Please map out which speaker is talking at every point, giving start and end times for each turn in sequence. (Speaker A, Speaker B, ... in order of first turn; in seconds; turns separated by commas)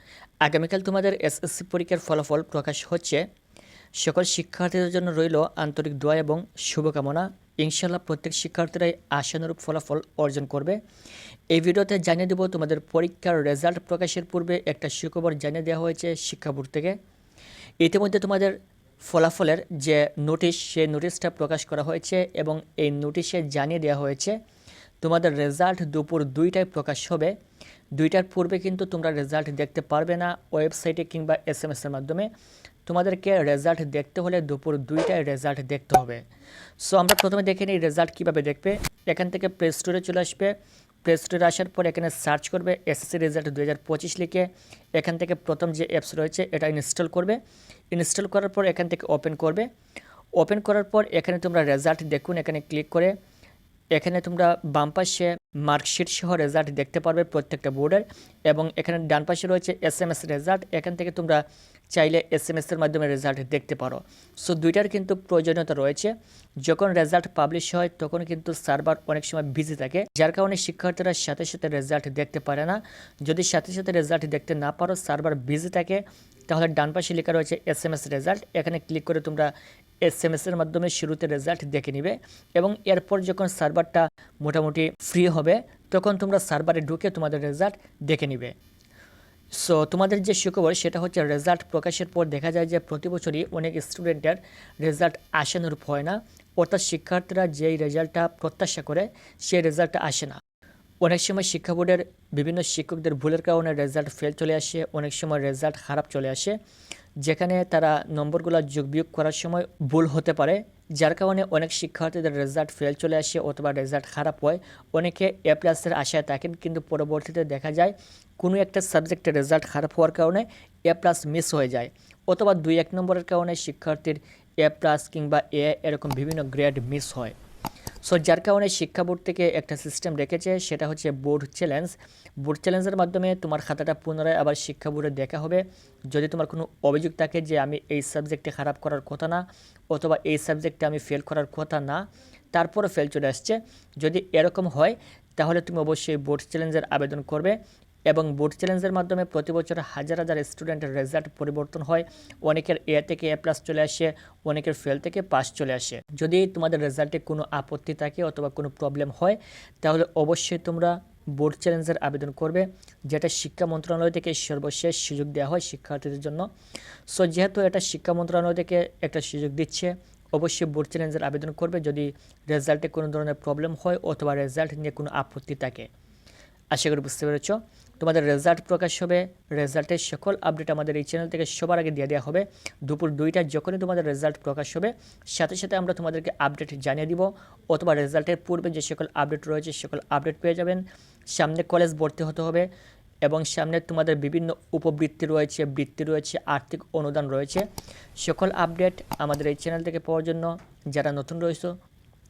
Speaker A: 0.4-3.3, Speaker A: 4.0-10.8, Speaker A: 11.5-17.0, Speaker A: 17.8-24.4, Speaker A: 25.0-27.4, Speaker A: 28.0-32.3, Speaker A: 32.9-36.2, Speaker A: 36.8-47.4, Speaker A: 47.9-49.7, Speaker A: 50.4-53.1, Speaker A: 53.9-79.5, Speaker A: 80.0-88.5, Speaker A: 89.5-100.4, Speaker A: 101.0-106.6, Speaker A: 107.2-127.4, Speaker A: 128.0-147.6, Speaker A: 148.1-166.5, Speaker A: 167.1-175.9, Speaker A: 176.7-192.7, Speaker A: 193.2-197.7, Speaker A: 198.2-201.8